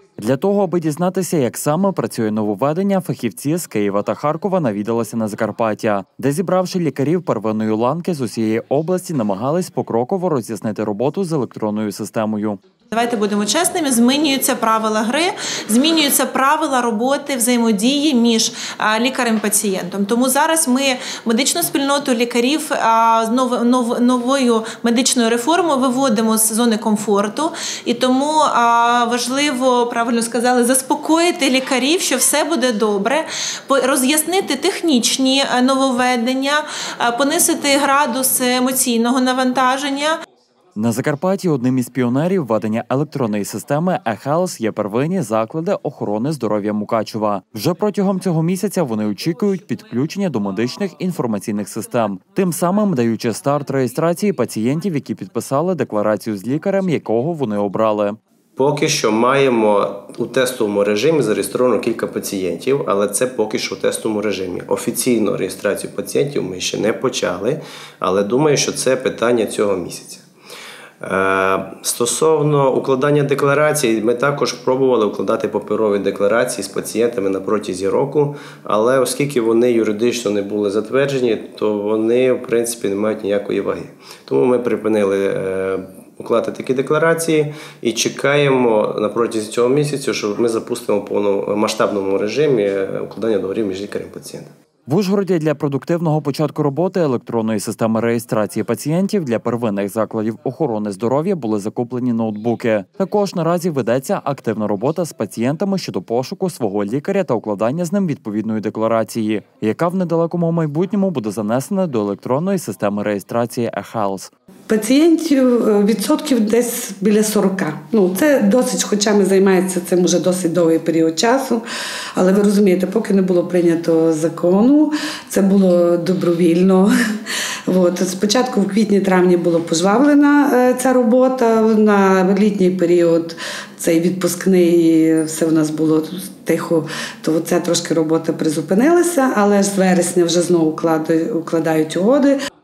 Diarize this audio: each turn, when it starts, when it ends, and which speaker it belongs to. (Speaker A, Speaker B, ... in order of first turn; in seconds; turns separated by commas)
Speaker A: 0.2-12.6, Speaker B: 12.9-40.2, Speaker A: 40.8-58.2, Speaker C: 58.6-70.2, Speaker C: 71.0-94.5, Speaker A: 94.9-114.3, Speaker D: 114.7-121.6, Speaker D: 122.2-126.9, Speaker D: 127.7-142.4